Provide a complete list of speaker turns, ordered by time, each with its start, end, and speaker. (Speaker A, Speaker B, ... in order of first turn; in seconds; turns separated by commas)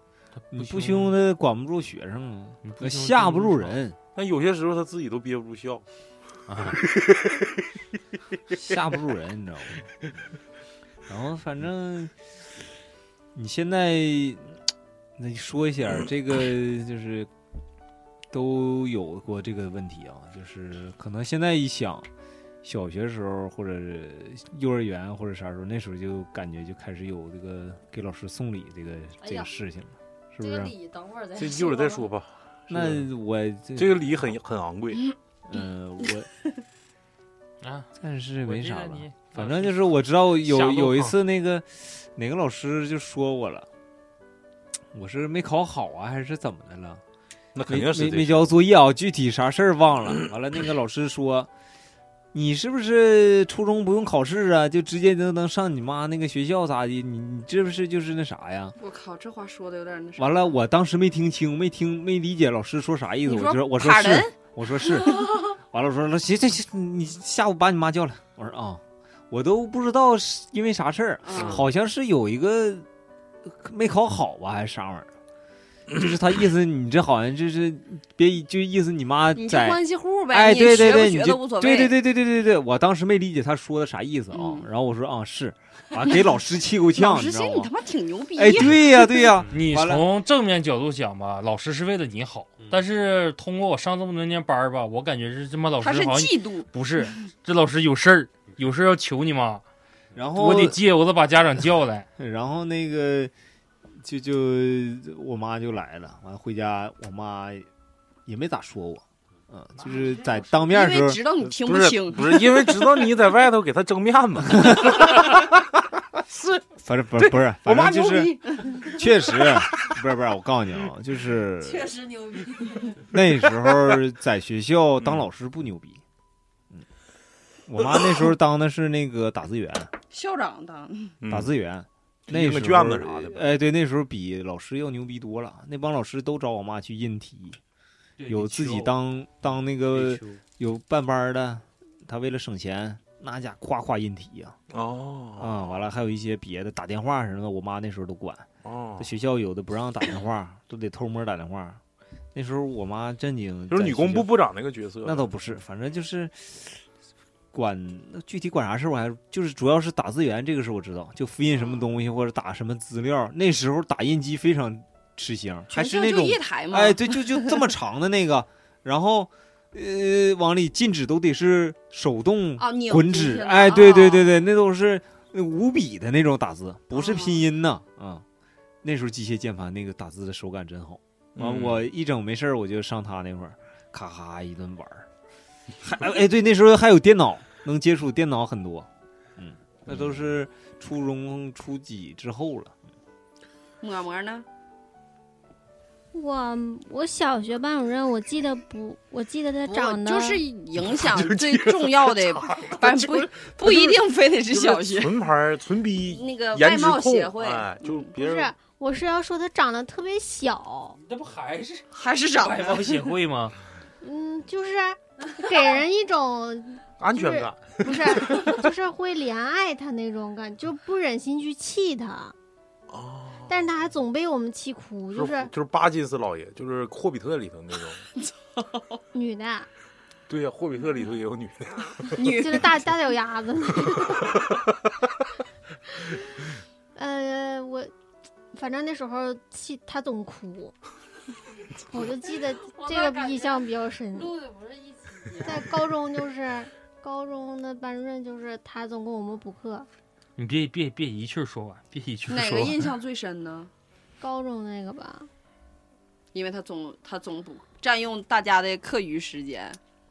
Speaker A: 0.4-1.1, Speaker B: 0.5-4.0, Speaker A: 2.6-3.8, Speaker C: 4.1-5.8, Speaker A: 6.5-6.8, Speaker C: 6.9-7.4, Speaker B: 8.5-9.9, Speaker B: 11.1-12.1, Speaker B: 13.3-14.6, Speaker B: 15.2-17.3, Speaker B: 18.3-22.1, Speaker B: 22.6-30.7, Speaker D: 29.2-29.5, Speaker D: 30.4-32.1, Speaker C: 31.4-33.1, Speaker B: 32.7-34.1, Speaker C: 33.8-35.0, Speaker B: 35.5-36.3, Speaker A: 37.6-37.9, Speaker B: 38.0-43.7, Speaker A: 38.4-41.2, Speaker B: 44.9-47.0, Speaker C: 47.5-48.6, Speaker B: 47.7-51.5, Speaker B: 52.3-58.8, Speaker E: 58.8-60.6, Speaker B: 60.2-72.8, Speaker E: 63.2-64.4, Speaker E: 71.2-71.6, Speaker B: 73.5-75.1, Speaker B: 75.9-87.7, Speaker E: 79.3-82.0, Speaker E: 84.3-84.7, Speaker E: 86.9-89.3, Speaker B: 88.3-90.1, Speaker A: 89.5-99.6, Speaker E: 95.8-96.7, Speaker B: 100.1-100.8, Speaker A: 100.3-102.1, Speaker B: 102.2-103.3, Speaker B: 104.0-107.7, Speaker B: 108.2-111.3, Speaker E: 110.6-112.5, Speaker C: 111.5-115.5, Speaker B: 114.6-114.9, Speaker B: 116.8-122.0, Speaker C: 117.2-118.2, Speaker D: 121.6-123.0, Speaker B: 123.0-126.0, Speaker C: 125.0-125.3, Speaker B: 127.7-129.9, Speaker E: 130.1-131.2, Speaker C: 131.2-131.5, Speaker B: 131.3-137.6, Speaker C: 132.3-133.4, Speaker A: 138.2-138.9, Speaker B: 138.2-144.6, Speaker A: 139.9-140.4, Speaker C: 144.7-145.8, Speaker B: 145.4-148.5, Speaker C: 148.6-149.1, Speaker B: 149.0-151.8, Speaker B: 152.3-154.3, Speaker C: 153.7-155.3, Speaker B: 155.0-156.8, Speaker B: 157.5-178.2, Speaker E: 165.7-167.6, Speaker E: 172.6-174.4, Speaker E: 176.9-177.4, Speaker B: 178.8-185.1, Speaker C: 181.3-181.9, Speaker B: 185.8-192.7, Speaker C: 189.9-190.1, Speaker E: 193.8-194.4, Speaker F: 196.1-200.4, Speaker E: 199.7-205.1, Speaker C: 200.8-208.5, Speaker E: 206.1-208.2, Speaker F: 208.2-211.0, Speaker A: 211.0-213.6, Speaker E: 211.9-213.0, Speaker F: 214.0-222.3, Speaker C: 217.0-218.6, Speaker C: 222.9-223.6, Speaker F: 223.5-225.5, Speaker C: 225.1-228.1, Speaker F: 229.1-229.7, Speaker C: 230.3-232.3, Speaker E: 232.1-232.7, Speaker F: 232.3-234.4, Speaker C: 234.2-234.6, Speaker F: 236.9-237.9, Speaker F: 238.5-240.7, Speaker F: 241.9-244.3, Speaker D: 242.6-245.8, Speaker F: 245.4-249.9, Speaker A: 250.4-252.9, Speaker E: 252.3-253.7, Speaker F: 254.2-255.3, Speaker E: 256.3-259.8